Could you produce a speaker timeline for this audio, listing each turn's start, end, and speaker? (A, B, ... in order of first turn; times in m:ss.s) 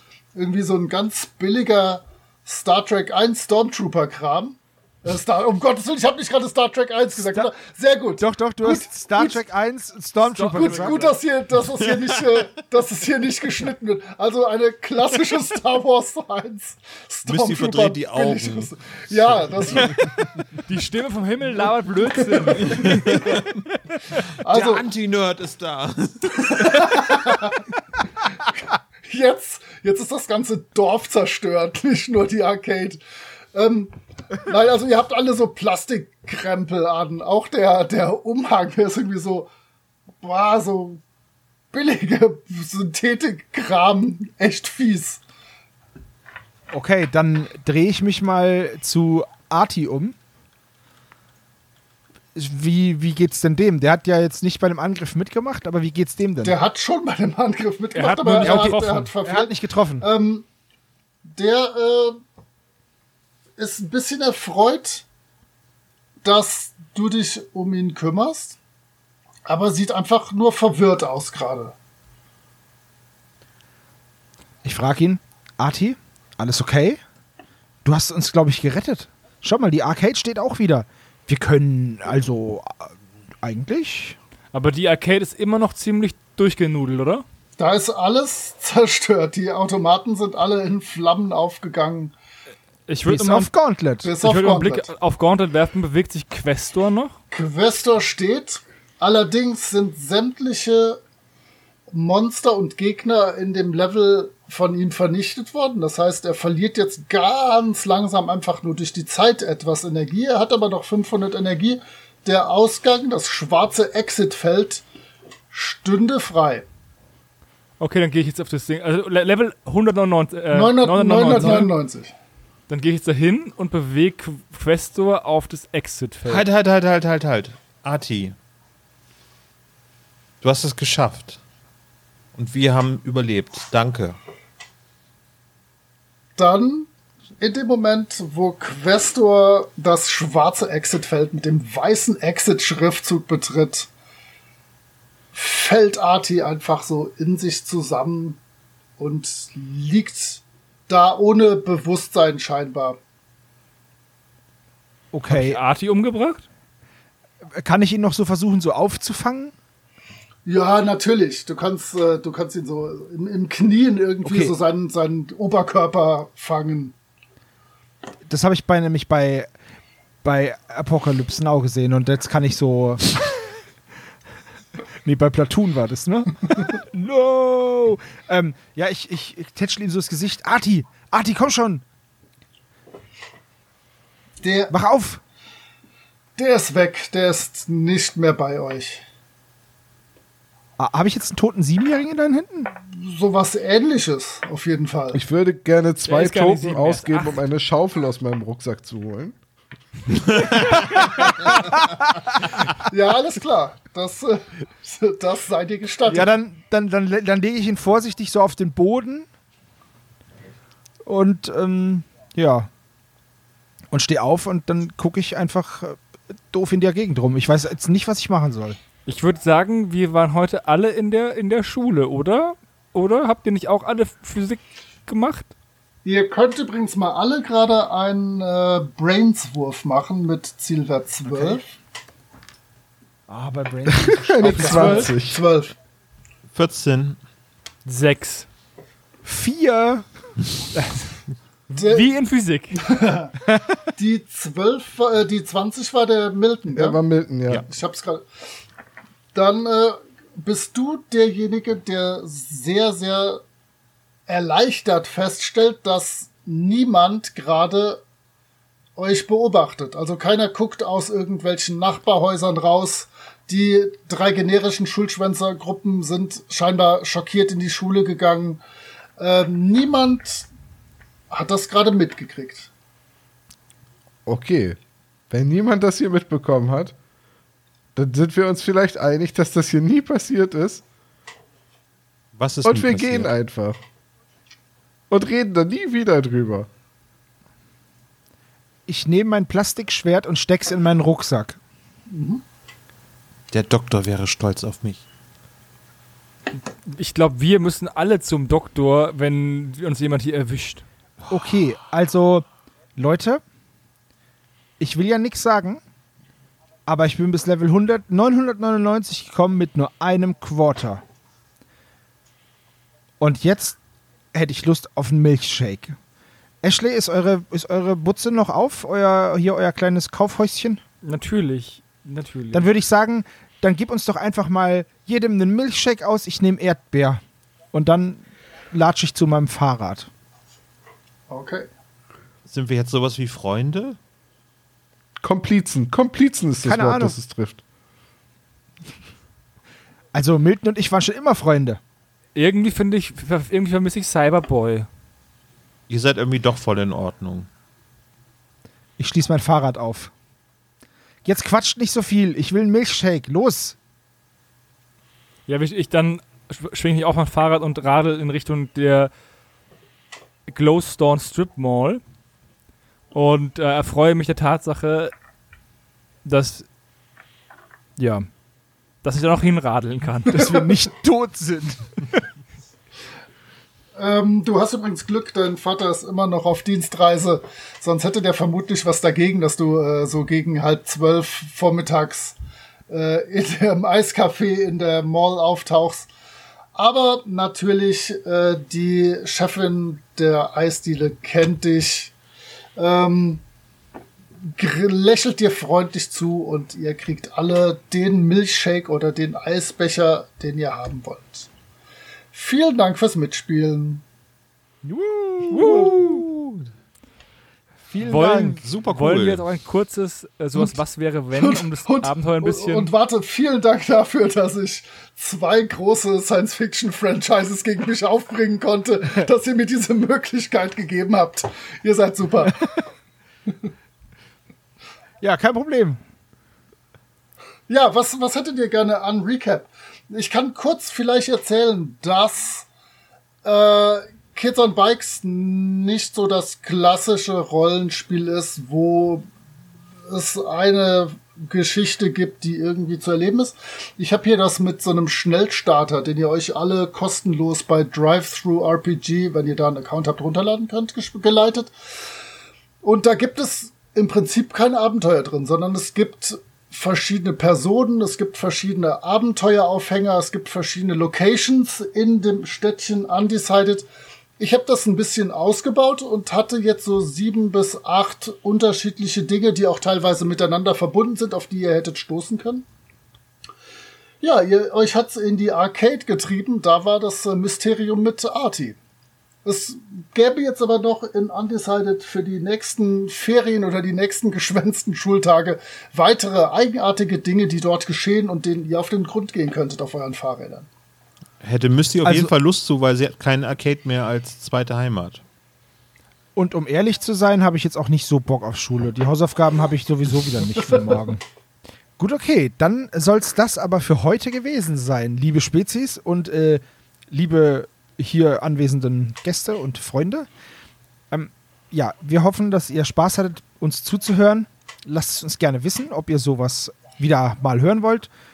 0:00.3-0:09.4 A
0:07.2-0:07.5 B
0:08.2-0:11.0 B
0:10.2-0:11.2 C
0:10.5-0:20.3 A
0:11.8-0:12.4 D
0:17.2-0:18.7 D
0:19.3-0:20.2 D
0:20.6-0:23.0 C
0:21.4-0:23.2 A
0:22.7-0:23.5 D
0:24.4-0:24.8 A
0:24.5-0:27.3 D
0:26.4-0:27.6 A
0:29.0-0:33.0 A
0:33.5-0:39.5 A
0:40.2-0:41.0 A
0:41.7-0:45.2 A
0:46.7-0:50.2 B
0:52.3-0:56.5 B
0:56.4-1:00.4 A
0:57.9-0:59.1 C
0:58.2-1:00.1 B
1:01.3-1:02.2 A
1:03.6-1:05.0 A
1:06.2-1:08.6 A
1:09.5-1:11.7 A
1:14.6-1:17.0 B
1:17.8-1:24.2 B
1:24.5-1:27.2 C
1:27.6-1:32.1 A
1:32.9-1:33.5 C
1:33.1-1:34.2 B
1:34.0-1:34.9 A
1:34.2-1:37.2 C
1:37.3-1:41.0 A
1:41.9-1:54.8 A
1:55.5-1:56.6 A
1:57.8-2:01.7 C
2:00.5-2:02.1 A
2:02.7-2:06.4 C
2:06.2-2:08.4 D
2:10.4-2:11.4 D
2:12.3-2:14.2 D
2:16.4-2:16.9 A
2:17.4-2:23.9 A
2:25.3-2:28.4 A
2:29.0-2:33.0 A
2:35.1-2:35.6 B
2:35.3-2:36.4 C
2:37.5-2:39.5 B
2:40.4-2:46.9 A
2:44.2-2:44.5 B
2:48.3-2:49.5 B
2:50.2-2:53.2 B
2:55.0-3:01.8 B
3:04.4-3:04.7 A
3:04.7-3:05.2 B
3:06.4-3:09.0 A
3:10.8-3:12.7 B
3:12.9-3:15.2 A
3:15.1-3:19.4 E
3:16.0-3:17.4 C
3:20.3-3:20.6 D
3:20.6-3:22.0 B
3:22.8-3:26.3 A
3:26.0-3:29.3 B
3:31.0-3:32.7 B
3:33.9-3:36.0 B
3:36.5-3:38.8 B
3:39.0-3:45.4 C
3:46.0-3:51.7 A
3:51.3-3:51.6 B
3:53.3-3:55.1 B
3:53.9-3:55.4 E
3:54.4-3:55.7 A
3:54.5-3:55.1 C
3:56.5-3:57.2 D
3:57.8-3:58.5 C
3:59.2-4:00.9 B
4:01.8-4:02.1 A
4:01.8-4:02.8 C
4:02.8-4:03.3 A
4:03.4-4:03.8 B
4:04.0-4:07.0 A
4:06.7-4:07.6 E
4:07.6-4:08.2 A
4:09.3-4:13.4 A
4:14.3-4:18.0 A
4:19.0-4:28.6 A
4:29.2-4:30.5 A
4:31.3-4:32.7 A
4:34.2-4:34.8 E
4:35.3-4:36.9 E
4:38.0-4:40.8 E
4:42.3-4:43.3 D
4:42.6-4:43.8 E
4:45.1-4:46.7 E
4:48.9-4:51.6 B
4:52.1-4:52.4 A
4:53.5-4:55.0 D
4:56.8-5:00.8 C
5:01.2-5:01.6 D
5:01.3-5:03.4 B
5:04.8-5:05.8 B
5:06.8-5:11.0 B
5:13.2-5:13.8 B
5:14.3-5:16.0 B
5:16.6-5:20.8 B
5:21.0-5:22.7 C
5:22.5-5:27.2 B
5:27.7-5:30.1 B
5:31.3-5:31.7 A
5:32.5-5:34.0 D
5:35.2-5:37.6 E
5:36.6-5:37.1 B
5:40.1-5:41.8 B
5:42.3-5:44.9 C
5:45.9-5:47.5 D
5:49.0-5:50.1 B
5:51.2-5:53.8 B
5:55.5-5:59.1 C
6:00.5-6:02.0 C
6:03.1-6:05.1 C
6:06.2-6:06.6 C
6:08.0-6:08.3 C
6:09.0-6:10.8 C
6:10.3-6:12.2 B
6:13.9-6:22.4 A
6:22.9-6:26.1 A
6:26.7-6:32.1 A
6:32.8-6:33.4 A
6:34.6-6:41.5 A
6:42.3-6:44.0 A
6:44.8-6:46.2 B
6:45.5-6:46.7 D
6:45.5-6:46.2 C
6:47.9-6:48.6 B
6:48.0-6:52.9 C
6:48.6-6:49.4 D
6:51.3-7:02.8 A
7:05.2-7:06.0 B
7:07.7-7:12.6 A
7:13.4-7:19.3 A
7:20.1-7:31.7 A
7:32.8-7:43.8 A
7:44.4-7:52.6 A
7:54.2-7:58.8 A
7:59.4-8:10.7 A
8:11.4-8:15.2 D
8:12.0-8:12.3 B
8:16.4-8:21.2 B
8:22.0-8:30.3 B
8:31.1-8:38.1 B